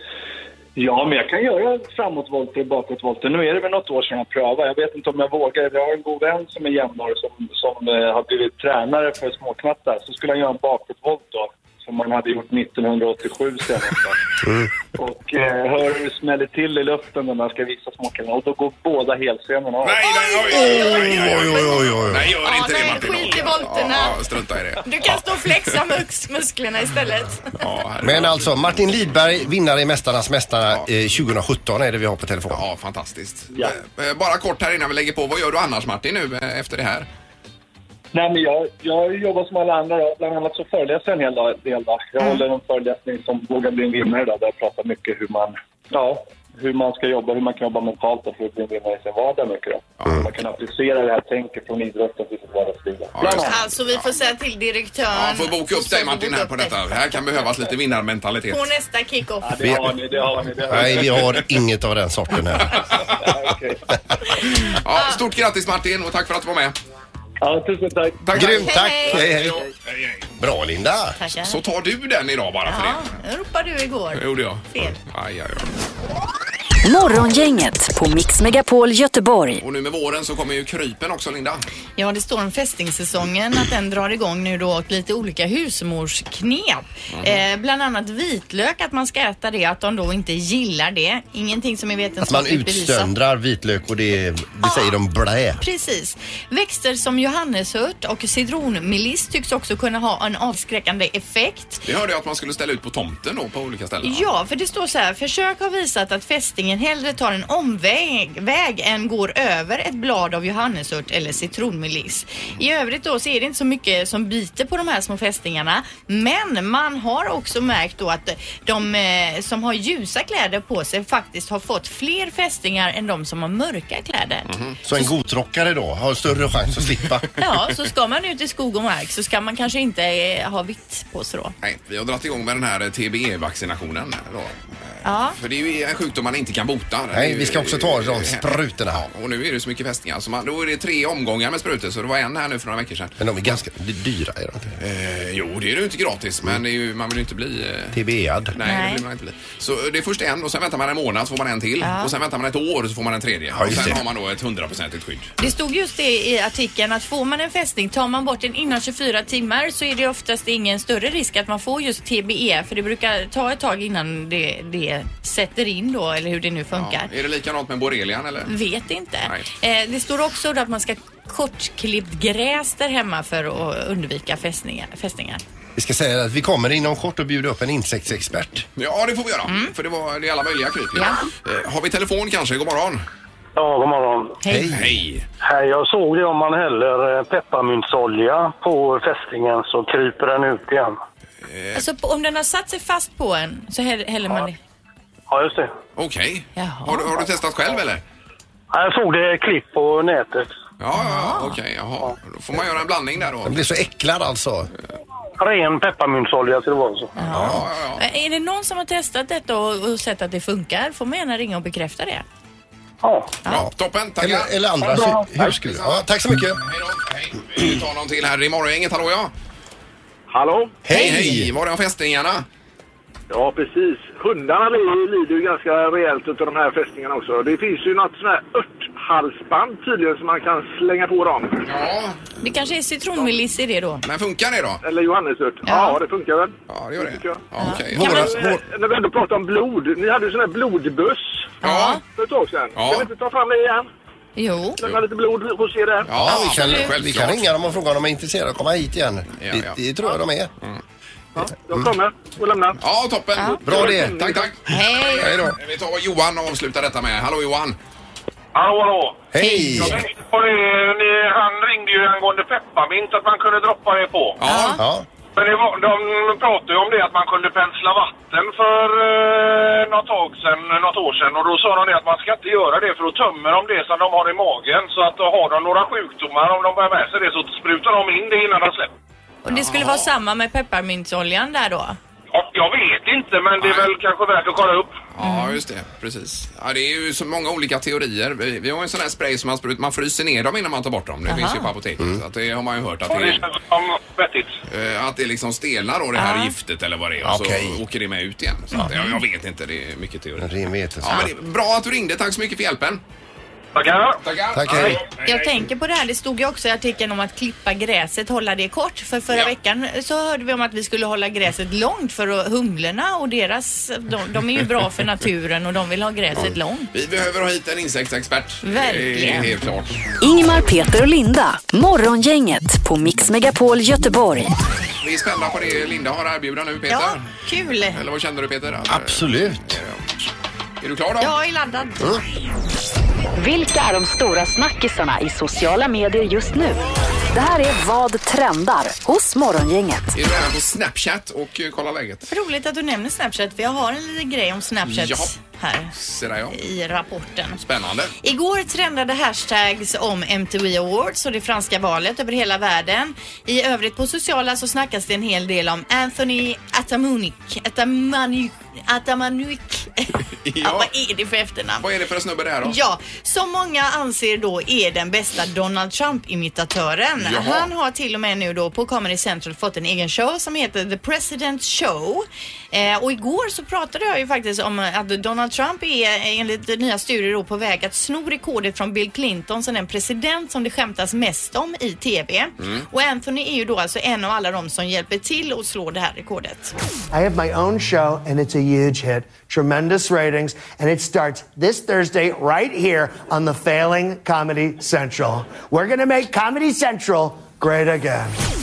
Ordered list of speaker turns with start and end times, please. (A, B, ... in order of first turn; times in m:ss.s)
0:00.8-0:14.2 A
0:15.0-0:20.0 A
0:19.8-0:25.4 B
0:20.4-0:22.3 C
0:20.5-0:21.2 D
0:22.4-0:24.2 D
0:24.8-0:27.6 D
0:27.6-0:28.6 B
0:28.0-0:32.6 C
0:32.5-0:37.1 B
0:38.1-0:53.6 A
0:53.1-0:54.1 B
0:53.4-0:56.8 D
0:55.1-0:58.7 B
0:58.5-0:59.5 D
0:59.4-1:01.4 A
0:59.6-0:59.9 C
1:00.7-1:02.9 C
1:02.7-1:03.8 A
1:04.6-1:06.7 B
1:07.4-1:08.6 A
1:08.2-1:10.2 B
1:08.3-1:09.6 C
1:08.6-1:09.2 D
1:10.4-1:11.2 C
1:11.2-1:11.6 D
1:11.4-1:13.1 B
1:12.7-1:15.0 D
1:14.1-1:15.7 B
1:16.8-1:19.6 E
1:19.6-1:21.6 B
1:22.0-1:33.1 D
1:27.1-1:27.4 B
1:32.2-1:35.6 C
1:34.6-1:34.9 D
1:35.6-1:41.8 D
1:41.8-1:44.3 B
1:44.0-2:05.1 D
2:04.5-2:04.8 B
2:04.8-2:07.3 C
2:07.4-2:11.5 D
2:11.6-2:23.6 B
2:15.0-2:15.4 D
2:17.1-2:19.0 C
2:23.2-2:24.8 C
2:24.8-2:28.0 B
2:27.9-2:28.6 C
2:28.5-2:35.3 B
2:28.6-2:29.0 D
2:31.8-2:32.1 D
2:33.5-2:34.0 C
2:35.4-2:47.1 D
2:46.7-2:48.6 B
2:48.4-2:55.4 D
2:55.8-2:58.6 C
2:58.8-3:03.0 B
3:03.6-3:04.4 F
3:04.4-3:04.7 D
3:04.4-3:05.0 C
3:04.7-3:05.2 B
3:05.4-3:11.0 F
3:11.4-3:11.8 B
3:11.7-3:14.6 D
3:15.3-3:15.7 F
3:16.0-3:18.0 B
3:16.6-3:17.1 D
3:18.7-3:20.5 F
3:20.8-3:23.7 B
3:21.0-3:21.6 D
3:23.4-3:24.7 C
3:25.4-3:27.1 F
3:27.2-3:32.2 D
3:27.3-3:28.0 B
3:27.3-3:27.6 C
3:33.0-3:33.3 F
3:33.5-3:34.5 B
3:34.2-3:36.6 C
3:35.6-3:36.0 B
3:36.6-3:39.3 B
3:40.3-3:40.8 G
3:40.8-3:41.5 C
3:40.9-3:42.4 B
3:40.9-3:41.3 D
3:43.3-3:51.6 G
3:51.6-3:52.2 B
3:52.4-3:54.0 D
3:54.0-3:54.8 B
3:54.8-3:57.4 G
3:55.6-3:56.0 D
3:56.7-3:58.4 B
3:57.6-3:58.3 D
3:58.0-4:01.5 G
4:01.6-4:02.0 D
4:01.6-4:02.0 B
4:02.0-4:03.9 G
4:02.7-4:03.1 B
4:04.4-4:04.8 D
4:04.8-4:06.1 G
4:06.1-4:07.5 B
4:06.1-4:10.5 C
4:06.3-4:06.9 D
4:09.4-4:09.8 B
4:11.4-4:12.8 G
4:12.8-4:17.8 B
4:13.4-4:13.6 D
4:13.6-4:14.5 C
4:13.6-4:14.5 G
4:14.7-4:15.3 D
4:15.2-4:15.6 C
4:18.5-4:19.3 G
4:19.3-4:20.0 C
4:19.4-4:20.0 D
4:19.9-4:24.4 G
4:24.4-4:24.8 B
4:24.4-4:24.8 D
4:24.7-4:25.0 C
4:25.4-4:38.9 G
4:39.4-4:42.0 D
4:39.5-4:40.0 B
4:42.3-4:44.9 G
4:43.6-4:43.9 B
4:45.1-4:53.5 B
4:45.2-4:45.6 D
4:51.3-4:51.7 D
4:53.1-4:54.6 G
4:54.6-5:03.0 B
4:56.2-4:56.5 D
4:57.2-4:57.8 C
5:00.4-5:01.3 C
5:03.7-5:04.2 G
5:04.2-5:05.4 B
5:04.5-5:05.0 C
5:05.2-5:16.9 D
5:16.9-5:20.1 B
5:18.6-5:19.6 D
5:20.2-5:24.5 E
5:25.0-5:27.2 B
5:26.9-5:28.0 D
5:27.9-5:30.0 B
5:28.9-5:29.8 C
5:30.8-5:31.3 B
5:31.2-5:32.1 D
5:33.4-5:36.8 E
5:37.3-5:40.1 E
5:40.1-5:42.3 B
5:42.3-5:45.9 D
5:44.9-5:45.3 B
5:45.9-5:46.6 B
5:46.5-5:47.6 D
5:47.6-5:48.1 B
5:48.2-6:01.8 D
6:00.4-6:00.9 B
6:01.8-6:02.8 B
6:02.6-6:26.7 D
6:07.2-6:07.7 B
6:22.6-6:22.8 B
6:27.1-6:38.3 H